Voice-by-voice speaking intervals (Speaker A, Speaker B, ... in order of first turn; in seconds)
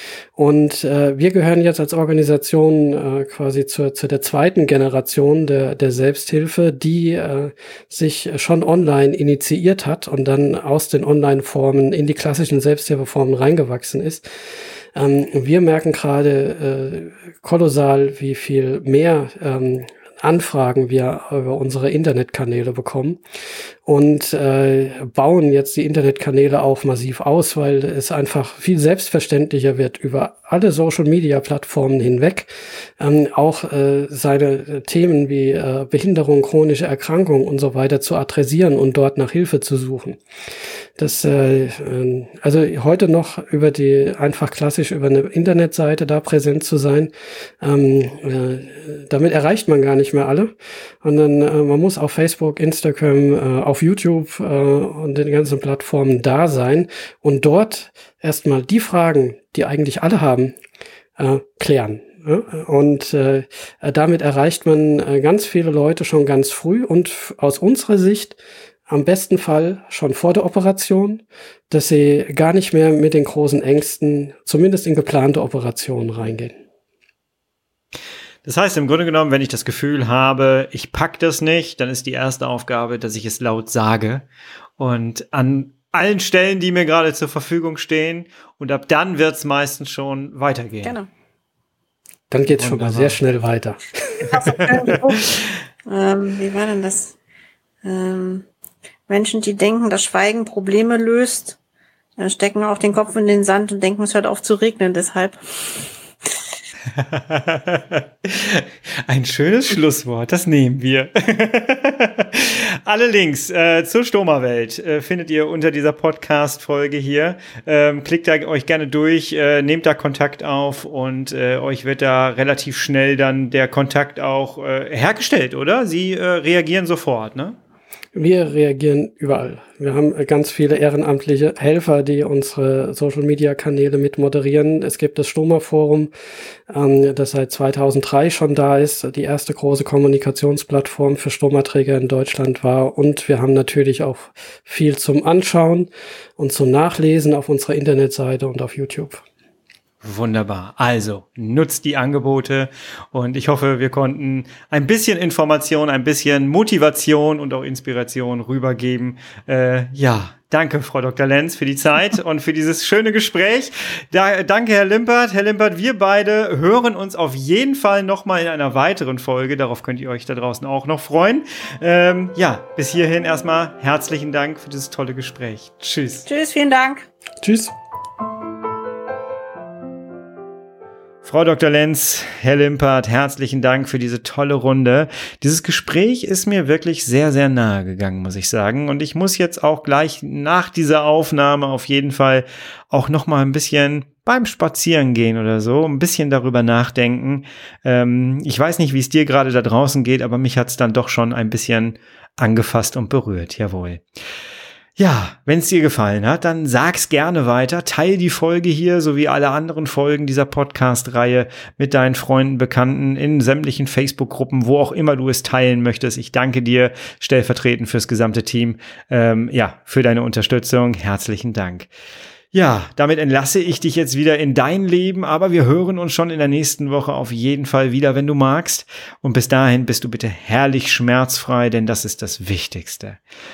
Speaker A: 0.3-14.2, 14.9-23.2, 23.8-40.2, 41.0-60.5, 61.2-68.4, 68.9-76.5, 92.3-94.9, 128.1-136.1, 136.7-149.2, 177.4-177.7
Speaker B: 78.4-84.2, 84.8-91.0, 92.5-93.2, 94.6-95.4, 106.9-127.6, 150.0-176.2, 181.2-204.0, 205.0-221.9, 222.5-233.2
Speaker C: 94.2-95.3, 95.8-97.2, 97.8-98.5, 99.1-101.6, 102.2-105.9, 176.3-177.1